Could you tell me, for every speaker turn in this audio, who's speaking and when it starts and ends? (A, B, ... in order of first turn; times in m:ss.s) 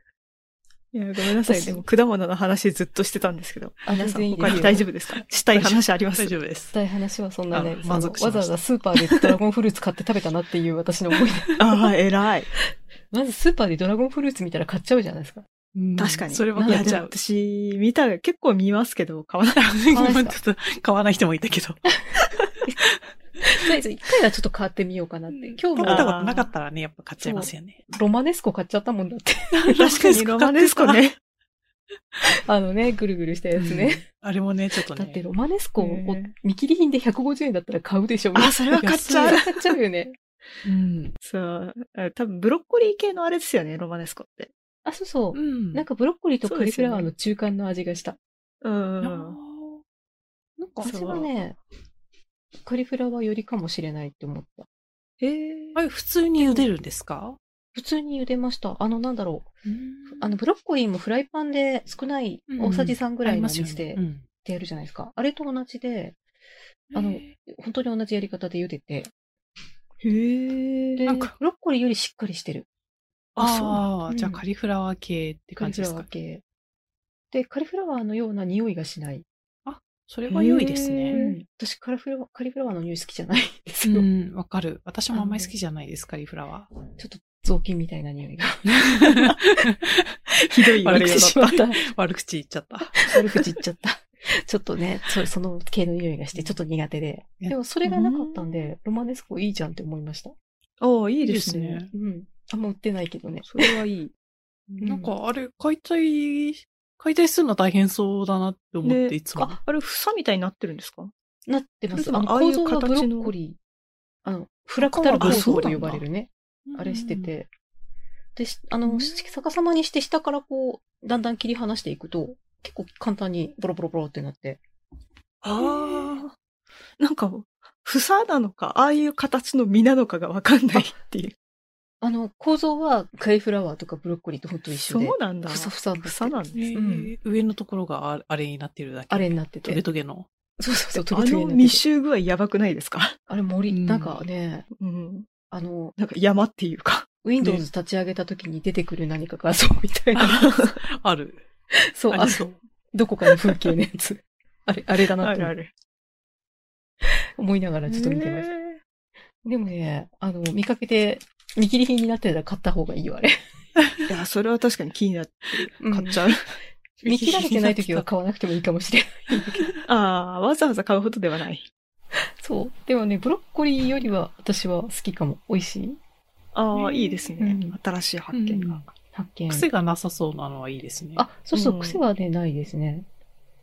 0:00.9-0:06.3 A
0:01.4-0:01.8 B
0:03.8-0:04.8 B
0:04.5-0:04.8 C
0:05.4-0:06.8 C
0:06.7-0:11.6 B
0:07.5-0:08.6 C
0:11.6-0:12.5 A
0:12.6-0:15.4 B
0:15.8-0:17.1 C
0:16.0-0:19.7 A
0:16.5-0:17.0 B
0:19.6-0:21.8 C
0:19.9-0:20.4 B
0:23.4-0:26.2 B
0:25.3-0:27.8 C
0:25.8-0:26.5 A
0:27.2-0:30.1 B
0:29.5-0:31.0 C
0:29.8-0:31.2 A
0:32.2-0:34.0 B
0:33.6-0:35.2 C
0:34.9-0:38.6 B
0:35.8-0:36.3 A
0:38.4-0:39.8 A
0:38.7-0:39.4 C
0:39.2-0:40.2 B
0:40.6-0:41.1 C
0:41.2-0:44.5 A
0:44.8-0:48.2 B
0:45.3-0:45.8 C
0:46.4-0:47.1 A
0:48.6-0:49.4 A
0:49.0-0:49.8 C
0:50.6-0:51.3 C
0:50.8-0:51.6 B
0:50.8-0:51.3 A
0:52.6-0:54.7 B
0:55.2-0:55.8 A
0:55.8-0:57.4 C
0:56.4-0:56.7 B
0:57.8-0:59.5 B
0:59.6-1:00.4 C
1:00.1-1:06.2 B
1:02.5-1:04.3 C
1:06.9-1:07.4 C
1:06.9-1:09.1 B
1:10.0-1:11.0 A
1:11.0-1:12.7 B
1:11.0-1:11.3 C
1:13.4-1:16.1 C
1:13.4-1:13.8 A
1:13.4-1:14.4 B
1:15.6-1:16.4 B
1:17.3-1:19.2 B
1:19.6-1:21.3 C
1:20.3-1:21.3 A
1:21.1-1:24.1 B
1:23.8-1:26.7 C
1:25.1-1:25.5 B
1:27.0-1:29.3 B
1:28.6-1:30.2 C
1:30.5-1:31.6 A
1:30.8-1:33.0 C
1:30.9-1:31.9 B
1:32.9-1:40.3 B
1:37.8-1:38.7 A
1:40.8-1:41.8 A
1:41.2-1:41.9 C
1:41.9-1:43.6 B
1:43.4-1:44.1 A
1:44.7-1:49.6 C
1:44.8-1:45.1 B
1:48.8-1:51.1 A
1:51.5-1:53.6 B
1:51.9-1:53.3 A
1:54.2-1:57.5 B
1:54.9-1:56.0 C
1:55.1-1:55.8 A
1:56.7-1:57.3 C
1:58.4-2:04.6 B
1:58.9-1:59.2 A
2:05.4-2:06.4 A
2:05.6-2:06.2 C
2:07.0-2:11.4 A
2:12.0-2:17.1 B
2:14.8-2:16.6 A
2:16.5-2:20.3 C
2:19.1-2:19.8 B
2:20.6-2:21.8 B
2:21.0-2:23.2 A
2:23.3-2:24.7 B
2:23.7-2:24.2 C
2:24.8-2:25.3 A
2:25.5-2:25.9 B
2:26.0-2:27.2 A
2:27.2-2:30.6 B
2:30.2-2:31.5 C
2:31.7-2:35.5 B
2:32.1-2:32.6 C
2:35.2-2:35.7 A
2:37.0-2:38.5 B
2:37.9-2:38.8 A
2:39.4-2:43.4 B
2:44.1-2:46.4 A
2:45.8-2:46.2 B
2:47.0-2:49.7 B
2:47.0-2:48.1 C
2:49.8-2:51.7 A
2:52.4-2:56.0 B
2:56.5-2:58.8 A
2:56.7-2:57.4 C
2:57.4-2:57.8 B
2:58.3-2:58.9 C
2:59.1-2:59.7 B
2:59.5-3:01.3 C
3:01.2-3:03.1 B
3:01.5-3:02.0 A